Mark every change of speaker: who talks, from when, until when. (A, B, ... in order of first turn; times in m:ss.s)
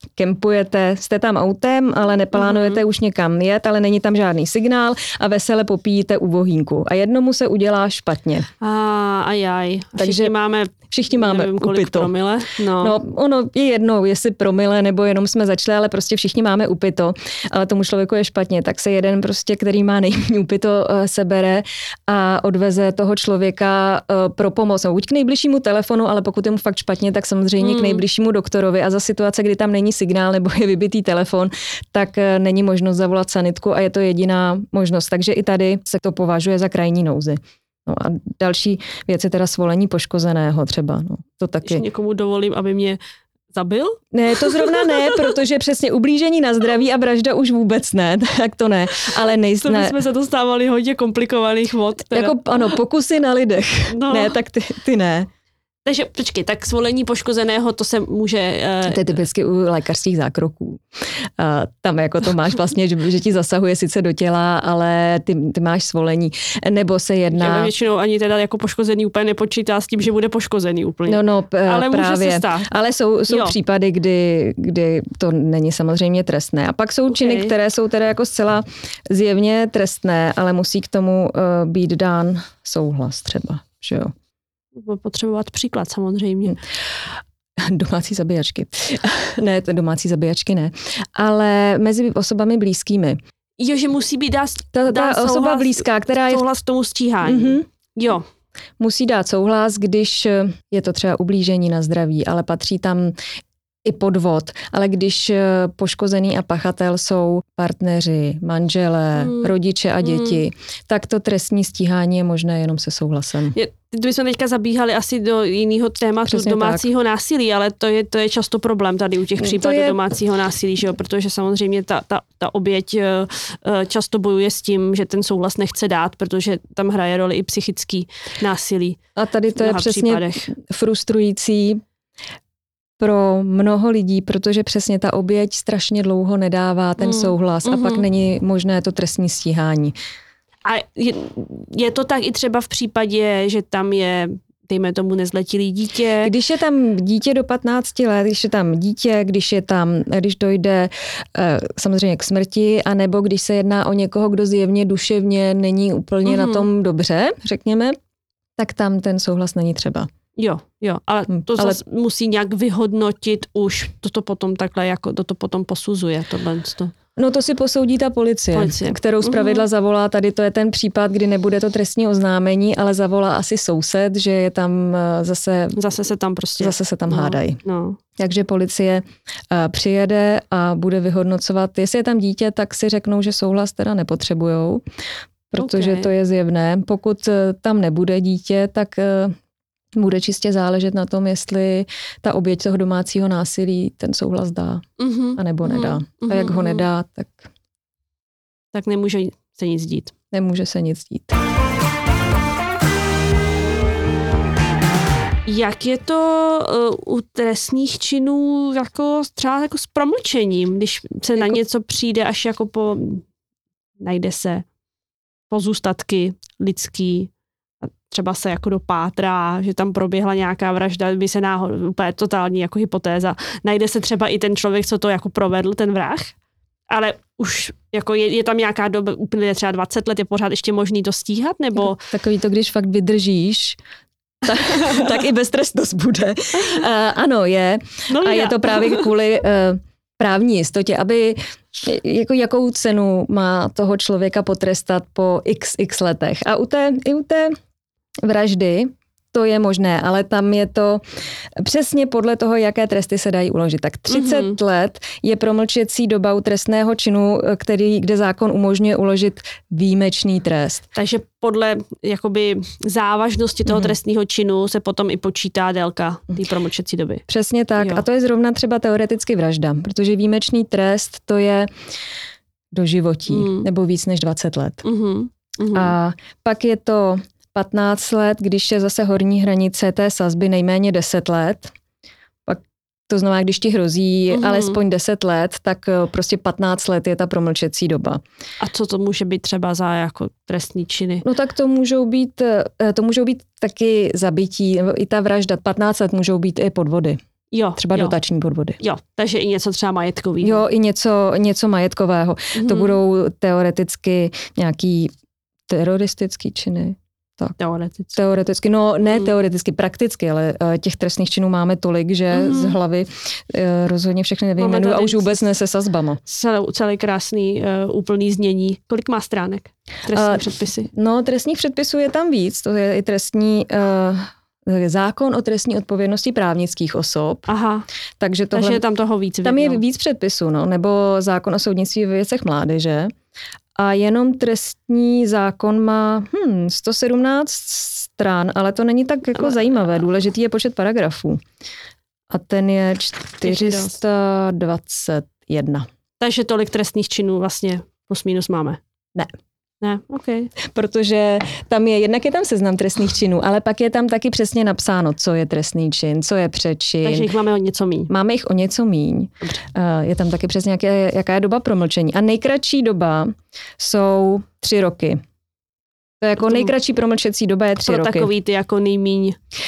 0:00.2-0:08.5 A
0:02.4-0:02.8 B
0:08.6-0:13.0 B
0:10.0-0:10.3 A
0:10.9-0:12.1 A
0:12.8-0:41.8 A
0:27.6-0:28.0 B
0:41.6-0:43.0 B
0:43.5-0:45.3 B
0:44.1-0:50.0 A
0:49.6-0:52.7 B
0:52.1-0:55.3 A
0:53.9-0:54.4 B
0:55.8-0:59.2 B
0:58.9-1:00.8 A
1:01.4-1:07.7 A
1:07.3-1:12.7 B
1:11.1-1:24.1 A
1:13.3-1:13.6 B
1:17.1-1:17.5 B
1:24.8-1:26.6 B
1:27.7-1:33.2 A
1:33.6-1:38.2 B
1:34.8-1:36.4 A
1:37.2-1:37.6 A
1:38.8-1:43.2 A
1:43.8-1:53.6 A
1:49.2-1:49.5 B
1:50.0-1:50.4 B
1:53.5-2:09.0 B
1:56.3-1:56.9 A
1:59.4-2:00.0 A
2:09.2-2:11.8 A
2:09.5-2:10.5 B
2:13.0-2:19.9 A
2:17.0-2:18.0 B
2:20.6-2:26.3 B
2:26.2-2:38.0 A
2:36.2-2:36.7 B
2:38.6-2:40.1 A
2:40.4-2:46.9 B
2:41.3-2:41.8 A
2:47.2-2:55.8 A
2:48.5-2:49.6 B
2:55.8-2:58.0 B
2:56.6-2:57.6 A
2:58.2-3:04.8 A
3:05.5-3:09.4 A
3:05.6-3:06.1 B
3:10.0-3:14.8 A
3:15.0-3:16.8 B
3:15.4-3:17.5 A
3:18.7-3:20.1 B
3:20.3-3:21.4 A
3:25.5-3:33.2 B
3:31.4-3:31.6 A
3:34.0-3:34.7 B
3:35.5-3:37.3 B
3:37.8-3:46.4 B
3:46.9-3:52.0 B
3:51.8-3:53.8 A
3:54.4-4:07.5 A
3:58.1-3:59.1 B
4:08.2-4:11.0 A
4:11.6-4:20.8 A
4:14.1-4:14.6 B
4:21.0-4:27.2 B
4:23.7-4:23.9 A
4:27.3-4:31.7 A
4:27.8-4:28.0 B
4:32.7-4:34.8 A
4:33.3-4:33.7 B
4:34.8-4:35.9 B
4:35.7-4:41.7 A
4:42.5-4:48.2 A
4:44.3-4:44.8 B
4:48.6-4:51.2 B
4:51.2-4:57.2 A
4:57.5-4:58.2 B
4:57.8-4:58.8 A
4:58.8-5:00.6 B
5:00.4-5:05.1 A
5:02.6-5:03.0 B
5:05.7-5:07.6 A
5:07.6-5:08.2 B
5:08.1-5:16.2 A
5:12.3-5:12.8 B
5:14.6-5:15.4 B
5:16.3-5:20.9 B
5:20.1-5:27.5 A
5:27.5-5:27.8 B
5:28.2-5:28.8 A
5:28.5-5:29.8 B
5:29.4-5:33.1 A
5:33.8-5:41.4 A
5:42.3-5:45.9 A
5:43.4-5:44.0 B
5:46.2-5:48.8 B
5:49.8-5:50.5 B
5:50.7-5:57.3 A
5:57.0-5:58.1 B
5:58.1-6:05.2 A
6:06.2-6:08.3 A
6:06.4-6:06.7 B
6:07.8-6:09.4 B